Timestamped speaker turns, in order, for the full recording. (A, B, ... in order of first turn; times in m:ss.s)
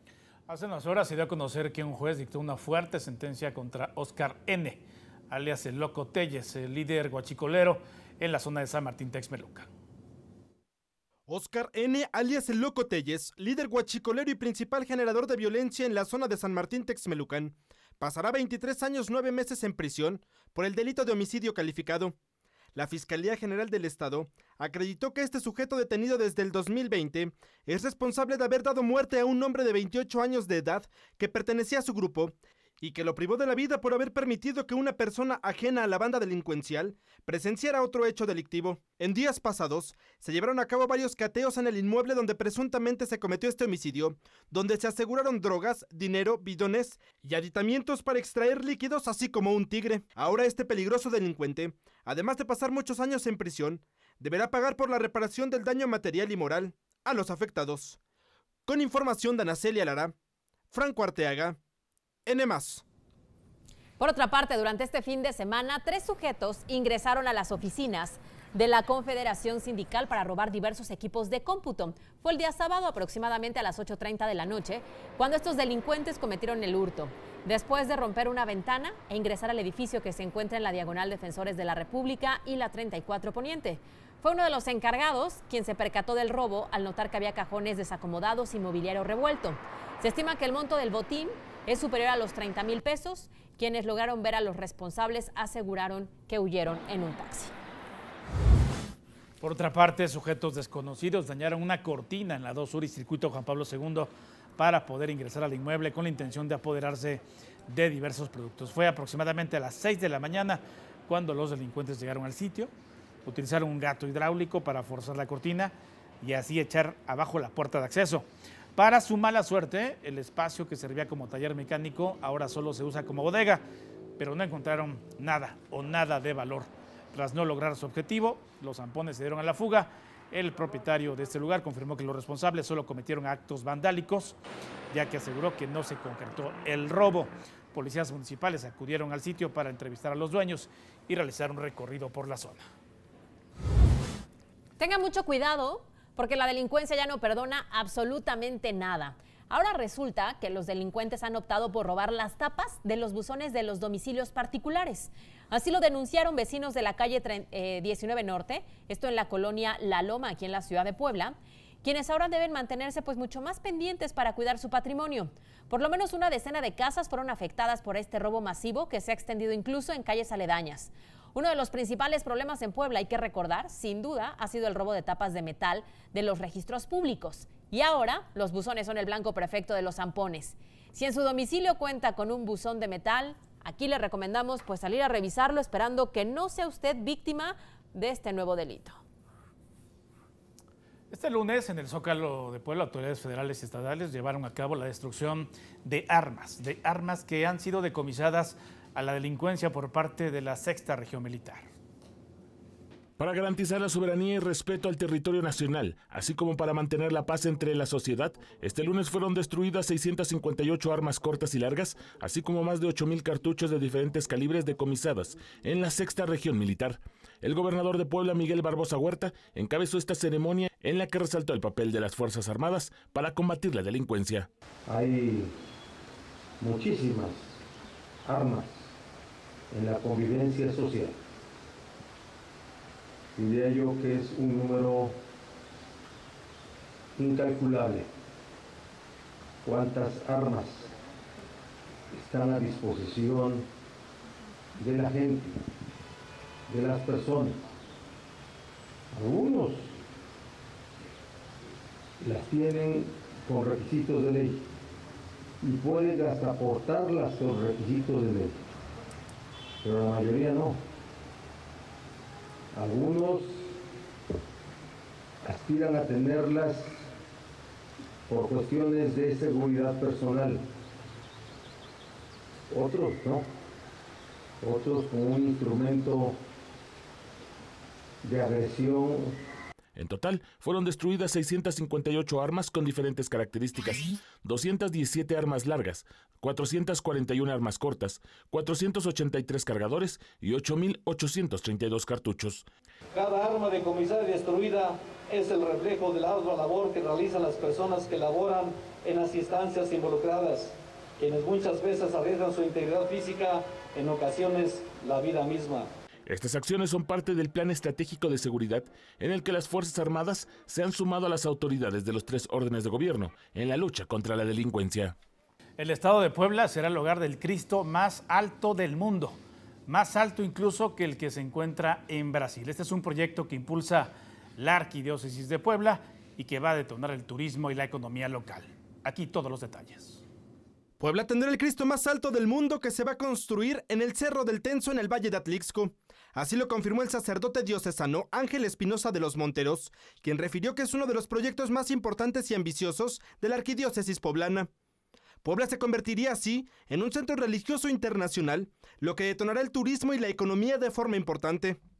0:00.5-0:09.7 A
0:11.3-0:22.1 B
0:22.7-0:58.0 B
0:58.6-1:00.1 B
1:00.7-1:01.6 B
1:02.2-1:02.8 B
1:04.0-1:37.5 C
1:39.4-1:52.7 A
1:53.2-2:03.6 A
2:04.2-2:14.4 A
2:14.9-2:22.7 A
2:24.8-3:09.0 C
3:11.1-3:21.7 A
3:23.2-3:44.5 D
3:44.9-3:45.5 E
3:46.6-3:47.3 E
3:48.3-3:48.6 E
3:49.7-3:51.1 E
3:53.4-3:55.1 E
3:57.2-3:58.0 E
3:59.6-4:00.8 E
4:02.1-4:03.6 E
4:04.8-4:05.5 E
4:06.7-4:07.6 E
4:09.1-4:09.8 E
4:12.2-4:14.6 E
4:15.6-4:18.5 E
4:19.8-4:20.8 E
4:22.7-4:23.4 E
4:25.4-4:27.0 E
4:28.3-4:30.6 E
4:32.7-4:33.4 E
4:34.6-4:36.3 E
4:38.2-4:39.2 E
4:40.0-4:52.7 D
4:53.1-5:05.9 F
5:06.2-5:15.2 D
5:15.8-5:30.2 A
5:31.0-5:44.7 B
5:45.4-5:51.8 B